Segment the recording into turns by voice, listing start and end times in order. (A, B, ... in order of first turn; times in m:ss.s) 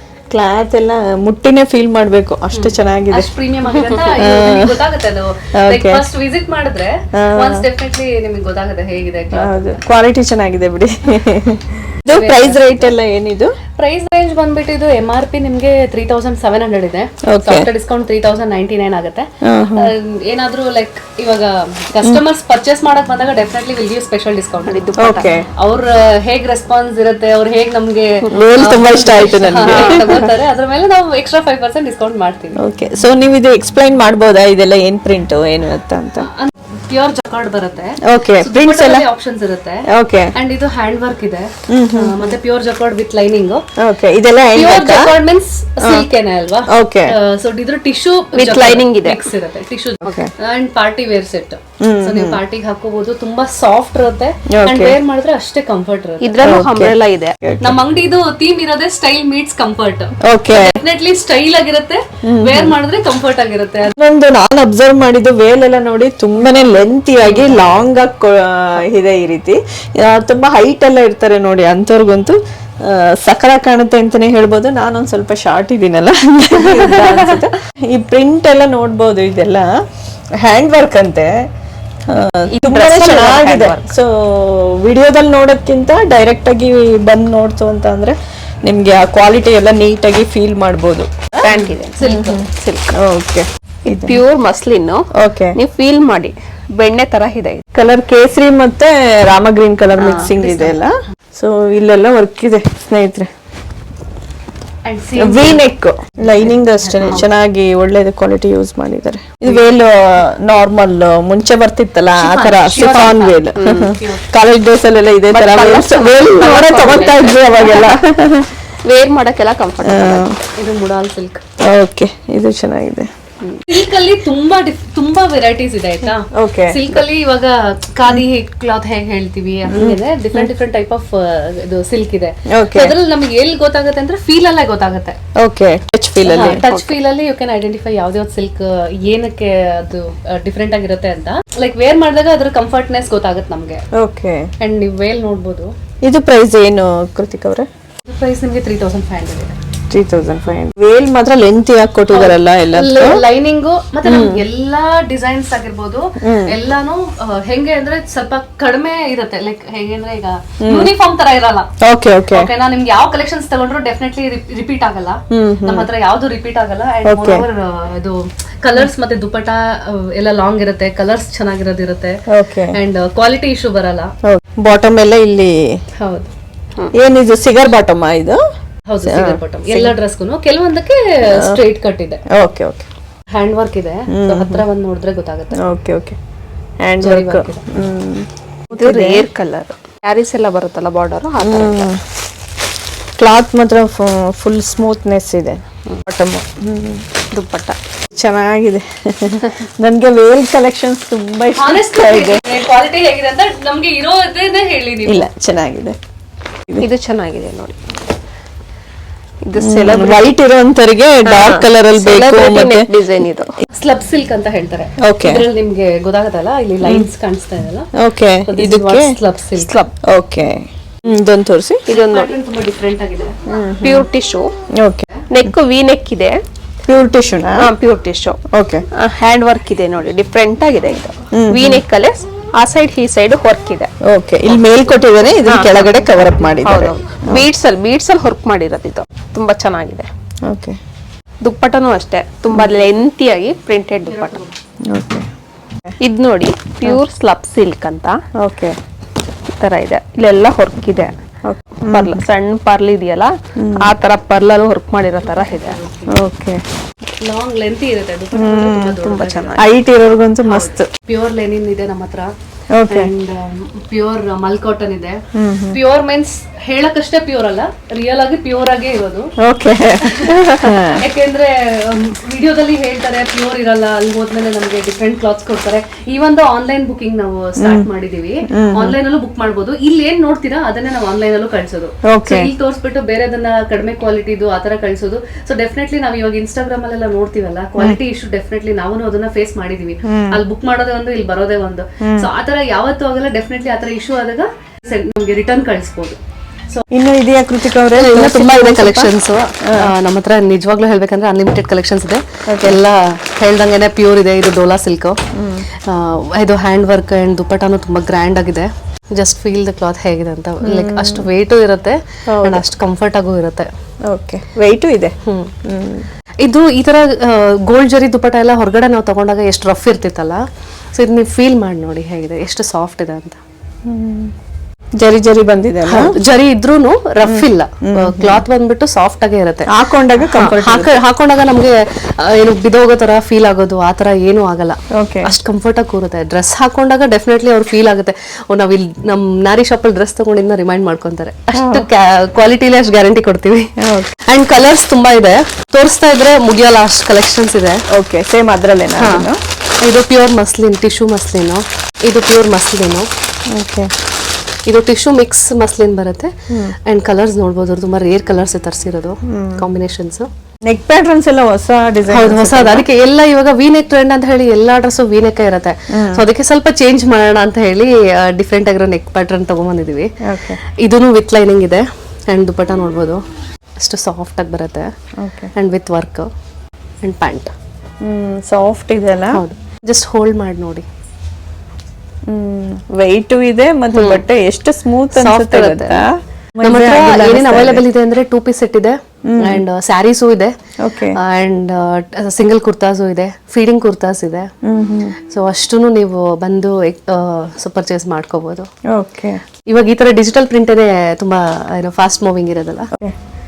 0:00.3-0:03.3 A
0:02.5-0:09.8 B
0:04.2-0:04.8 A
0:05.5-0:06.0 A
0:07.1-0:07.6 A
0:09.3-0:13.6 A
0:12.1-0:12.9 B
0:13.8-0:32.6 B
0:17.2-0:17.7 A
0:19.4-0:19.9 A
0:24.7-0:25.3 C
0:25.0-0:25.5 A
0:28.3-0:30.3 A
0:29.6-0:30.2 C
0:32.6-0:36.3 A
0:36.2-0:43.6 B
0:38.0-0:39.0 A
0:39.9-0:40.3 A
0:41.7-0:42.2 A
0:43.8-0:45.1 A
0:44.6-0:56.4 B
0:45.8-0:46.1 A
0:46.7-0:47.2 A
0:48.3-0:49.3 C
0:50.0-0:50.3 A
0:51.8-0:52.4 A
0:54.5-0:55.0 A
0:56.2-0:57.4 C
0:56.4-0:57.8 A
0:57.6-1:03.9 B
1:00.2-1:00.8 A
1:02.2-1:02.7 A
1:03.9-1:19.8 A
1:07.2-1:07.6 B
1:20.4-1:21.5 A
1:22.1-1:31.4 A
1:22.5-1:23.9 C
1:31.4-1:32.4 B
1:31.4-1:33.0 C
1:32.0-1:34.2 A
1:33.8-1:37.6 C
1:35.1-1:35.6 A
1:37.7-1:43.3 A
1:40.0-1:40.3 C
1:40.4-1:40.8 B
1:44.8-1:45.7 B
1:45.2-1:58.5 A
1:46.8-1:47.3 B
1:52.2-1:54.3 B
1:53.6-1:53.9 C
1:55.3-1:58.0 C
1:58.8-2:00.2 C
1:59.8-2:00.4 A
2:00.6-2:01.4 B
2:01.6-2:03.1 A
2:03.7-2:15.2 B
2:06.3-2:06.8 A
2:09.7-2:10.5 A
2:12.5-2:12.9 A
2:15.4-2:16.6 A
2:16.3-2:23.8 B
2:16.6-2:17.0 C
2:23.9-2:24.5 A
2:24.6-2:25.7 B
2:26.0-2:27.7 A
2:28.1-2:29.6 B
2:29.9-2:33.2 A
2:32.1-2:41.7 B
2:34.0-2:34.4 A
2:36.2-2:36.5 A
2:40.6-2:40.9 A
2:41.8-2:42.5 A
2:42.3-2:52.2 B
2:45.3-2:45.9 A
2:47.1-2:47.5 A
2:52.3-2:52.8 A
2:52.7-2:54.1 B
2:54.2-2:55.8 A
2:56.0-2:56.3 B
2:56.9-2:58.4 A
2:58.9-3:02.2 B
2:59.0-2:59.9 A
3:01.3-3:01.6 A
3:02.3-3:02.9 A
3:03.3-3:05.6 B
3:04.1-3:04.6 A
3:05.6-3:06.2 A
3:06.8-3:09.3 A
3:07.0-3:07.6 B
3:08.7-3:11.9 C
3:11.4-3:12.0 A
3:13.2-3:17.0 A
3:17.3-3:17.8 C
3:18.2-3:22.4 A
3:21.6-3:25.3 B
3:25.1-3:26.0 A
3:26.8-3:27.8 C
3:29.4-3:30.4 C
3:29.6-3:32.9 A
3:31.2-3:33.5 C
3:33.7-3:37.9 B
3:35.0-3:35.4 A
3:36.8-3:37.1 A
3:38.0-3:39.2 A
3:38.5-3:39.7 B
3:39.6-3:39.9 C
3:40.0-3:41.9 A
3:41.9-3:42.3 C
3:41.9-3:43.4 B
3:43.5-3:44.0 A
3:43.8-3:44.5 C
3:44.7-3:45.1 A
3:45.3-3:46.4 C
3:46.9-3:47.7 A
3:47.6-3:48.4 C
3:48.5-3:48.8 A
3:48.9-3:53.9 C
3:51.3-3:51.8 A
3:54.0-3:57.4 A
3:55.4-4:00.1 C
4:00.4-4:00.8 A
4:01.4-4:04.4 C
4:04.1-4:04.5 B
4:04.8-4:05.3 A
4:06.0-4:08.2 C
4:08.4-4:08.8 A
4:09.5-4:11.1 C
4:11.5-4:12.2 A
4:11.8-4:15.8 C
4:13.6-4:13.9 A
4:15.2-4:16.1 B
4:16.1-4:16.6 A
4:17.2-4:19.6 B
4:18.3-4:19.0 A
4:19.0-4:19.6 C
4:19.6-4:20.9 A
4:20.4-4:22.3 B
4:22.7-4:23.1 A
4:22.9-4:29.3 B
4:25.3-4:25.8 A
4:29.4-4:31.0 A
4:30.0-4:56.2 B
4:37.6-4:37.9 A
4:38.5-4:39.0 A
4:42.0-4:42.5 A
4:50.0-4:50.4 A
4:52.0-4:52.3 A
4:56.9-4:59.1 A
4:57.9-5:05.2 B
4:59.6-4:59.9 A
5:02.5-5:02.8 A
5:05.3-5:05.7 A
5:05.8-5:13.7 B
5:10.6-5:11.3 A
5:12.3-5:12.6 A
5:14.1-5:16.1 A
5:15.2-5:15.5 B
5:16.4-5:20.4 B
5:21.0-5:23.4 B
5:23.9-5:24.3 A
5:25.0-5:26.2 A
5:25.9-5:29.7 B
5:27.2-5:28.4 A
5:29.7-5:30.9 A
5:30.2-5:47.8 B
5:34.9-5:35.3 A
5:41.5-5:41.9 A
5:43.8-5:44.1 A
5:47.9-5:49.4 A
5:49.0-5:49.3 B
5:49.8-5:53.1 B
5:53.5-5:53.9 A
5:54.7-6:00.3 B
5:56.5-5:56.8 A
5:59.2-5:59.6 A
6:00.7-6:02.8 A
6:02.1-6:10.1 B
6:05.9-6:06.2 A
6:10.2-6:10.6 A
6:10.6-6:13.2 B
6:13.8-6:14.9 B
6:15.2-6:15.5 A
6:15.6-6:16.3 B
6:17.0-6:17.5 B
6:18.0-6:19.4 A
6:19.3-6:20.9 B
6:22.3-6:27.8 A
6:23.9-6:24.2 B
6:25.2-6:26.0 B
6:26.6-6:30.6 B
6:29.3-6:29.6 A
6:30.8-6:31.2 A
6:31.2-6:34.5 B
6:34.6-6:35.2 A
6:35.2-6:38.7 B
6:38.9-6:39.4 A
6:39.7-6:42.9 B